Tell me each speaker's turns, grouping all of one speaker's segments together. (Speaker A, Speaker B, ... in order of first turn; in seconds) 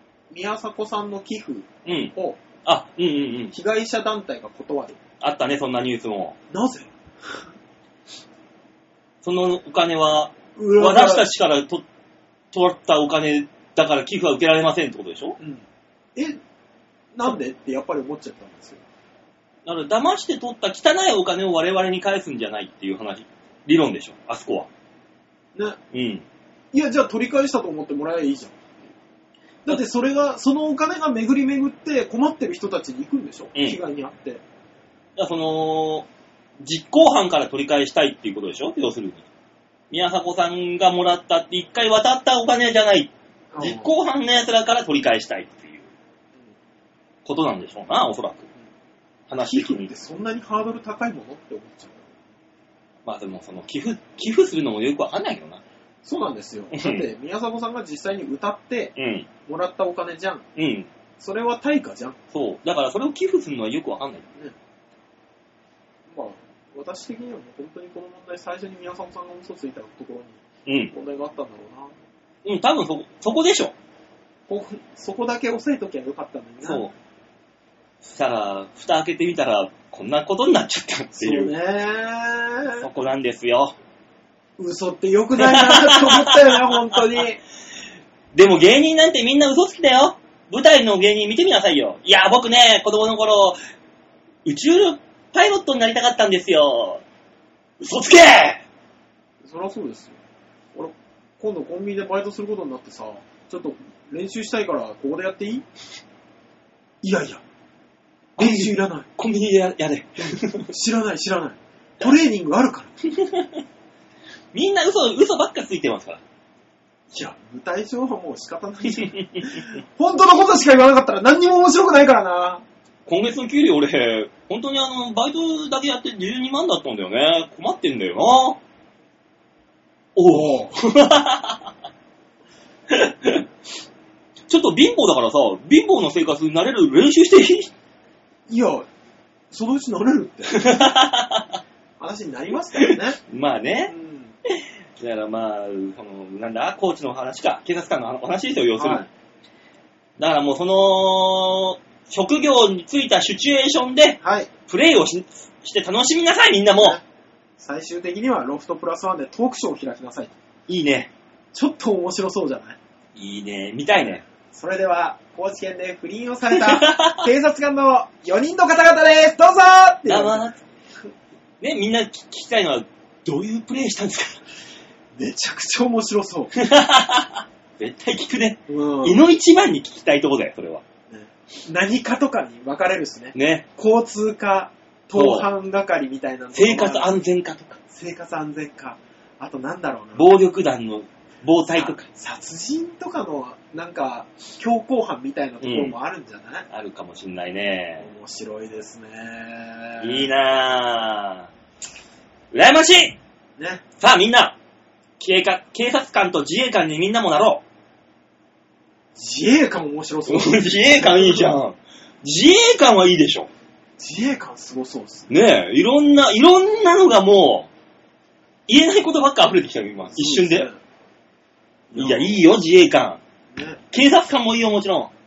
Speaker A: 0.3-2.4, 3.5-5.0, 6.5-7.5, 10.6-11.2, 17.1-18.8, 26.7-28.6, 29.6-34.4, 43.5-43.9, 49.4-52.1, 56.0-58.9, 59.5-60.4, 61.2-62.2, 66.1-70.4, 70.9-71.9, 74.5-76.8, 81.2-82.9, 84.6-87.4, 99.4-100.2, 100.7-105.6, 107.0-107.4, 108.4-109.1, 110.7-112.9, 117.1-122.6, 130.3-130.7, 138.5-138.9, 139.5-140.6, 142.0-143.2, 143.9-144.3, 148.8-149.1, 154.2-154.5, 157.6-160.3, 161.5-162.8, 164.5-170.4, 175.2-176.5, 178.7-179.2, 181.1-187.2, 187.9-190.3, 191.7-196.7, 198.0-200.3, 203.6-203.8, 209.1-211.5, 214.0-215.3, 220.1-220.8, 221.9-222.4, 223.5-223.8
Speaker B: 1.9-2.1, 2.6-3.5, 5.2-6.4, 9.2-11.8, 12.5-15.4, 19.6-24.7, 25.9-26.2, 35.1-36.1, 36.6-39.2, 39.9-45.9, 47.2-48.5, 49.3-49.9, 53.0-55.6, 56.7-57.0, 59.0-59.3, 60.5-60.9, 62.3-64.2, 70.7-70.9, 72.4-73.7, 76.6-76.9, 78.0-81.5, 82.8-83.7, 85.4-87.0, 88.3-93.6, 94.4-97.0, 97.8-98.6, 108.4-110.7, 113.1-113.6, 114.5-116.2, 119.1-119.6, 123.0-128.6, 130.2-131.6, 132.9-133.4, 134.5-137.7, 140.5-141.6, 142.7-143.9, 144.5-149.1, 150.2-157.0, 160.7-161.1, 163.2-164.2, 166.5-167.2, 170.1-170.6, 171.6-174.4, 176.5-180.8, 183.3-183.6, 185.1-185.5, 186.5-187.8, 190.2-192.1, 195.6-195.9, 196.7-198.1, 200.0-201.5, 202.5-203.2, 204.0-204.6, 205.2-207.6, 210.3-213.5, 215.3-217.7, 218.7-220.7, 221.9-223.2, 223.9-225.1